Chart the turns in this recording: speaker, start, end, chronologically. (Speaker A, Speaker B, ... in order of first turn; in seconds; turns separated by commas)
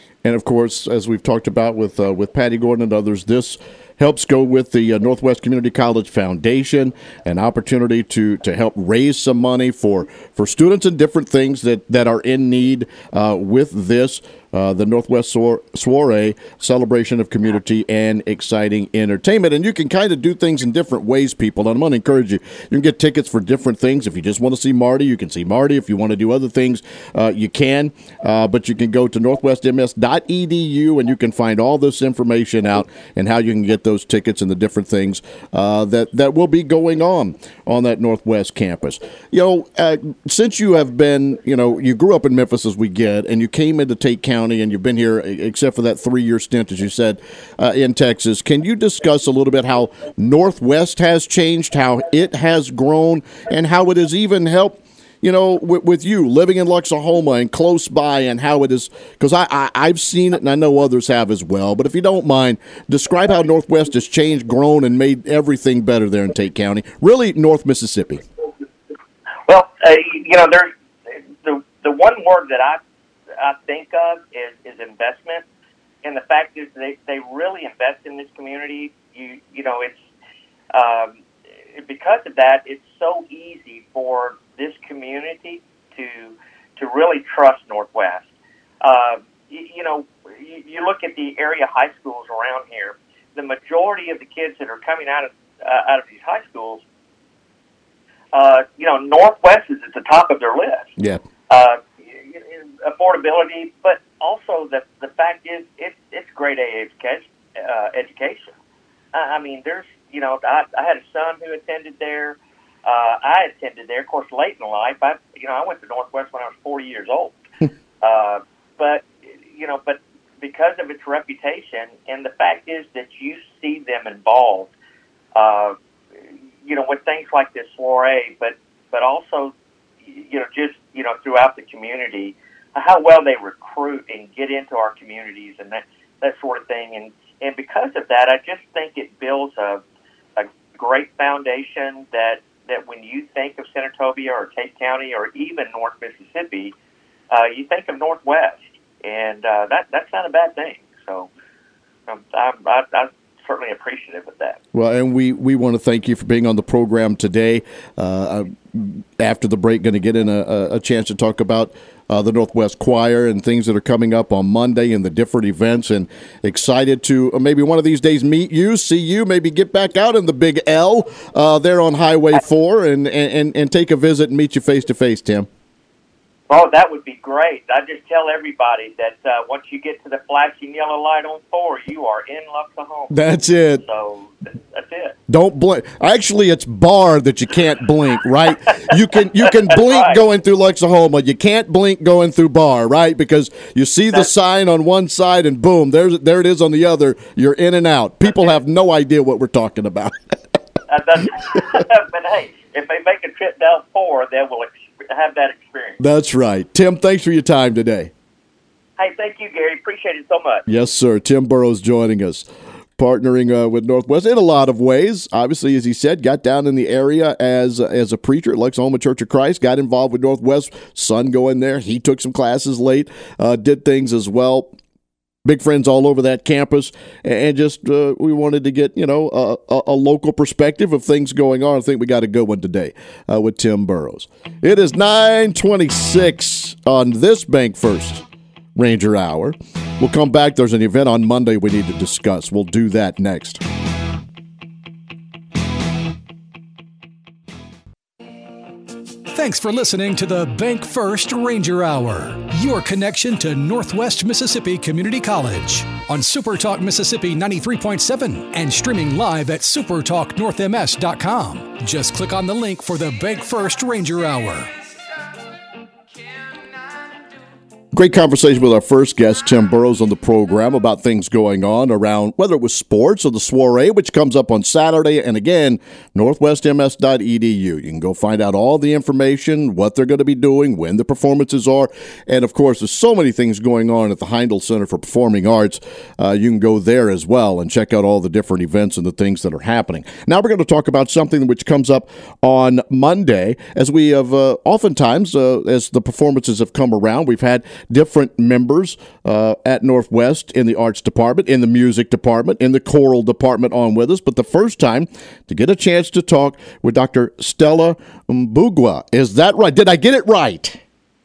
Speaker A: 0.2-68.2, Speaker B: 69.5-72.8, Speaker B: 73.4-75.4, Speaker B: 76.0-80.0, Speaker B: 80.7-81.2, Speaker B: 81.7-88.3, Speaker B: 88.8-96.8, Speaker B: 98.3-100.9, Speaker A: 101.0-101.2, Speaker B: 101.5-108.5, Speaker B: 109.1-117.4, Speaker B: 118.0-124.7, Speaker B: 125.3-125.8, Speaker B: 126.6-139.8, Speaker B: 140.4-146.7, Speaker B: 147.3-151.3, Speaker B: 152.1-154.6, Speaker A: 154.7-175.5, Speaker B: 176.5-183.2, Speaker A: 183.1-183.8, Speaker B: 183.8-185.1, Speaker A: 185.3-200.3, Speaker B: 189.4-190.2, Speaker B: 200.9-206.0, Speaker A: 206.0-208.1, Speaker B: 209.0-210.6, Speaker A: 210.7-212.4, Speaker A: 213.0-224.7, Speaker A: 225.4-238.2, Speaker A: 238.8-243.6, Speaker C: 249.3-264.7, Speaker A: 267.9-310.8